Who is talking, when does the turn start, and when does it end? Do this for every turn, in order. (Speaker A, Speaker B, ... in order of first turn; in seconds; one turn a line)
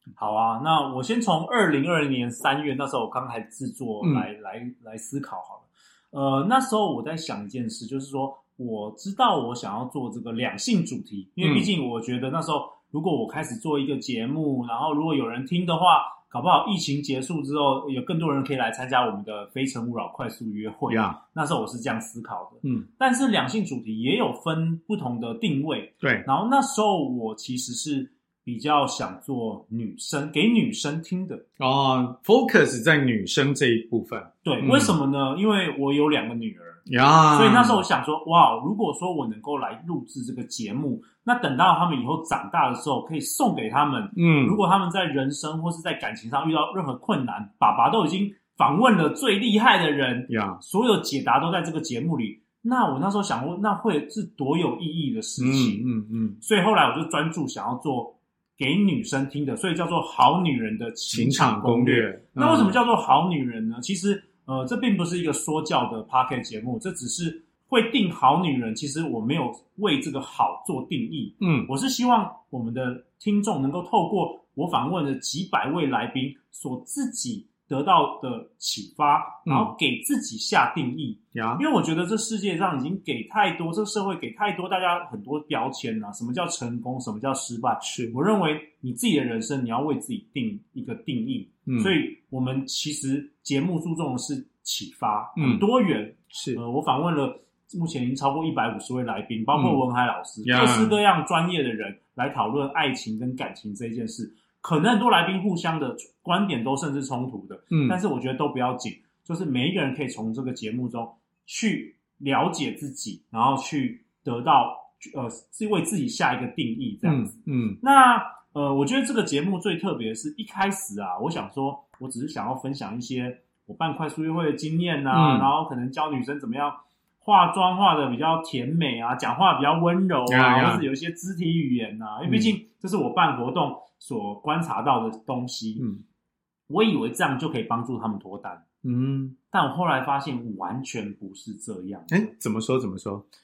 Speaker A: 0.2-31.4
Speaker B: 4.0-4.3
Speaker B: 11.4-11.7
Speaker B: 20.9-21.2
Speaker B: 26.0-26.3
Speaker B: 31.6-34.9
Speaker A: 34.4-36.8
Speaker B: 36.9-37.8
Speaker A: 37.3-55.9
Speaker B: 44.1-44.6
Speaker B: 50.3-50.6
Speaker B: 55.4-56.4
Speaker A: 56.4-135.9
Speaker B: 61.1-62.8
Speaker B: 71.4-71.7
Speaker B: 79.5-79.7
Speaker B: 81.3-81.6
Speaker B: 87.8-88.1
Speaker B: 91.7-91.9
Speaker B: 95.4-95.7
Speaker B: 96.3-96.6
Speaker B: 99.5-99.8
Speaker B: 100.4-101.0
Speaker B: 107.7-108.0
Speaker B: 117.0-117.8
Speaker B: 125.1-125.5
Speaker B: 130.3-130.8
Speaker B: 132.2-132.5
Speaker A: 136.7-138.6
Speaker B: 138.8-139.3
Speaker A: 139.5-142.3
Speaker B: 142.1-143.2